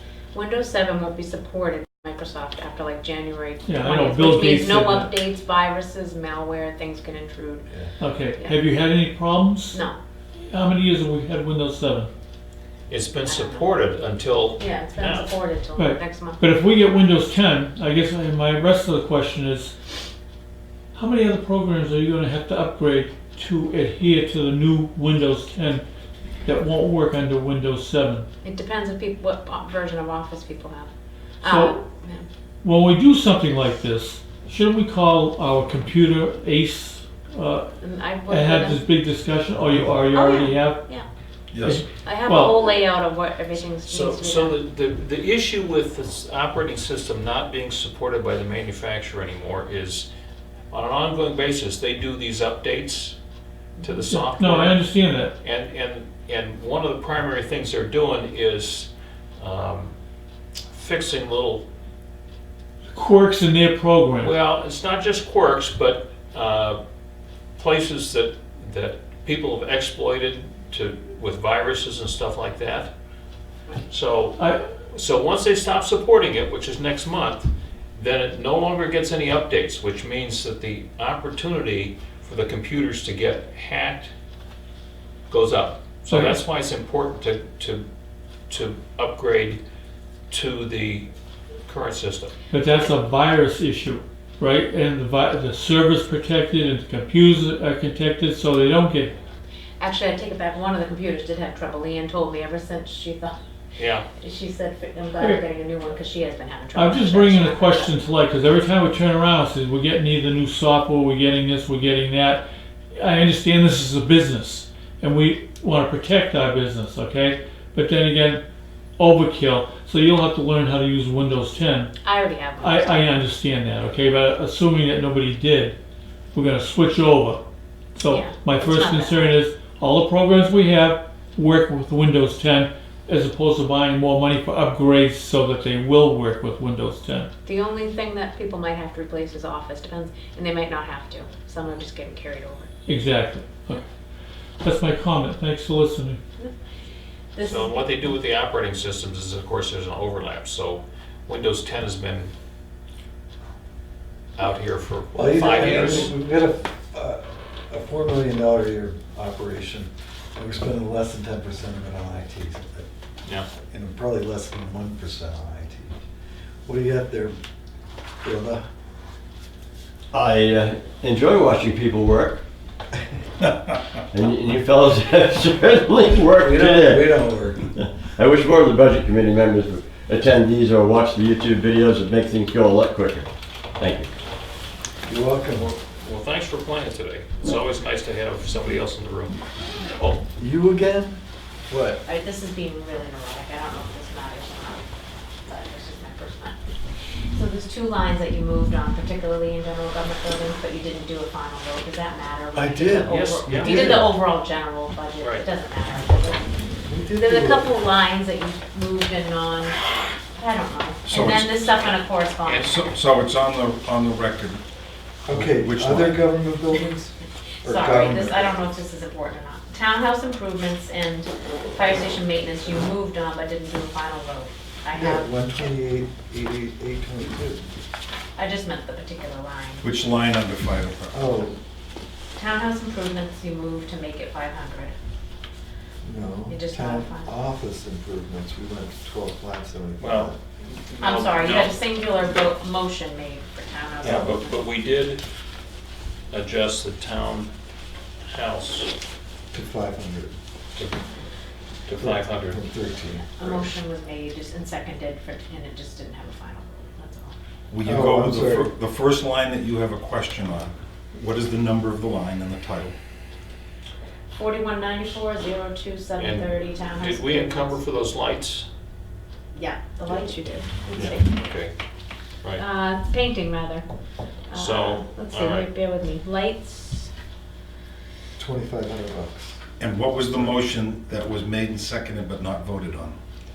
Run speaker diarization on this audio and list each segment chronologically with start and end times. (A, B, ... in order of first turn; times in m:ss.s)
0:00.3-0:07.7 A
0:03.7-0:05.1 B
0:08.0-0:09.8 B
0:09.7-0:10.0 A
0:10.5-0:12.1 B
0:12.9-0:15.3 C
0:13.2-0:13.7 A
0:14.6-0:16.4 A
0:15.8-0:19.7 B
0:20.9-0:25.8 B
0:26.4-0:28.3 B
0:28.4-0:30.9 A
0:31.4-0:32.2 A
0:31.4-0:31.8 B
0:32.6-0:37.7 B
0:37.8-0:38.8 A
0:38.3-0:40.9 B
0:40.1-0:41.0 A
0:41.5-0:41.8 D
0:41.6-0:42.6 B
0:42.0-0:44.6 A
0:43.8-0:50.1 C
0:50.7-0:53.2 C
0:53.8-0:54.8 C
0:54.1-0:55.4 B
0:55.4-0:59.9 C
1:00.7-1:01.6 C
1:02.9-1:04.3 B
1:04.2-1:06.8 C
1:07.6-1:12.9 C
1:13.9-1:14.4 C
1:14.4-1:14.6 B
1:14.9-1:24.1 C
1:25.3-1:27.8 C
1:26.1-1:26.4 B
1:28.5-1:29.6 C
1:30.3-1:31.1 C
1:31.7-1:32.3 C
1:32.5-1:39.1 B
1:39.8-1:43.3 A
1:43.8-1:44.1 C
1:44.1-1:48.0 A
1:46.8-1:58.4 B
1:59.0-2:01.9 B
2:02.0-2:03.0 A
2:02.6-2:05.8 B
2:06.3-2:07.4 B
2:08.0-2:17.3 B
2:08.1-2:09.4 A
2:17.4-2:22.7 A
2:22.9-2:23.8 B
2:24.6-2:26.2 B
2:27.3-2:27.7 A
2:27.4-2:32.3 C
2:34.4-2:36.1 C
2:35.1-2:42.9 E
2:43.7-2:45.9 E
2:46.6-2:47.4 E
2:48.2-2:48.6 E
2:50.1-2:52.4 F
2:54.1-2:57.2 F
2:56.4-2:57.6 E
2:57.7-3:04.1 F
3:05.0-3:05.7 E
3:05.5-3:09.4 C
3:09.9-3:10.2 C
3:10.4-3:12.0 E
3:12.0-3:14.8 A
3:15.5-3:16.6 A
3:17.3-3:26.5 A
3:22.5-3:24.1 E
3:23.1-3:24.1 C
3:25.2-3:25.5 C
3:26.9-3:27.7 E
3:27.2-3:32.8 A
3:31.1-3:31.6 D
3:32.4-3:32.7 C
3:32.7-3:34.6 D
3:35.3-3:38.6 E
3:35.3-3:36.3 D
3:37.6-3:45.3 A
3:44.9-3:47.7 E
3:48.4-3:49.9 A
3:49.8-3:51.2 D
3:51.1-3:51.6 E
3:52.4-3:54.9 A
3:56.0-4:00.4 E
3:56.5-3:57.3 A
4:00.0-4:01.8 C
4:01.0-4:04.6 A
4:04.0-4:05.2 C
4:06.3-4:07.5 C
4:08.3-4:08.9 C
4:09.5-4:10.4 E
4:11.9-4:12.6 C
4:12.0-4:13.3 E
4:13.4-4:17.4 A
4:13.4-4:13.6 C
4:17.7-4:23.0 D
4:17.8-4:18.7 E
4:24.4-4:27.8 A
4:26.2-4:28.7 C
4:29.6-4:31.3 A
4:30.9-4:31.7 C
4:32.6-4:33.9 A
4:34.5-4:37.1 A
4:34.5-4:35.7 C
4:38.4-4:39.6 E
4:39.8-4:43.2 D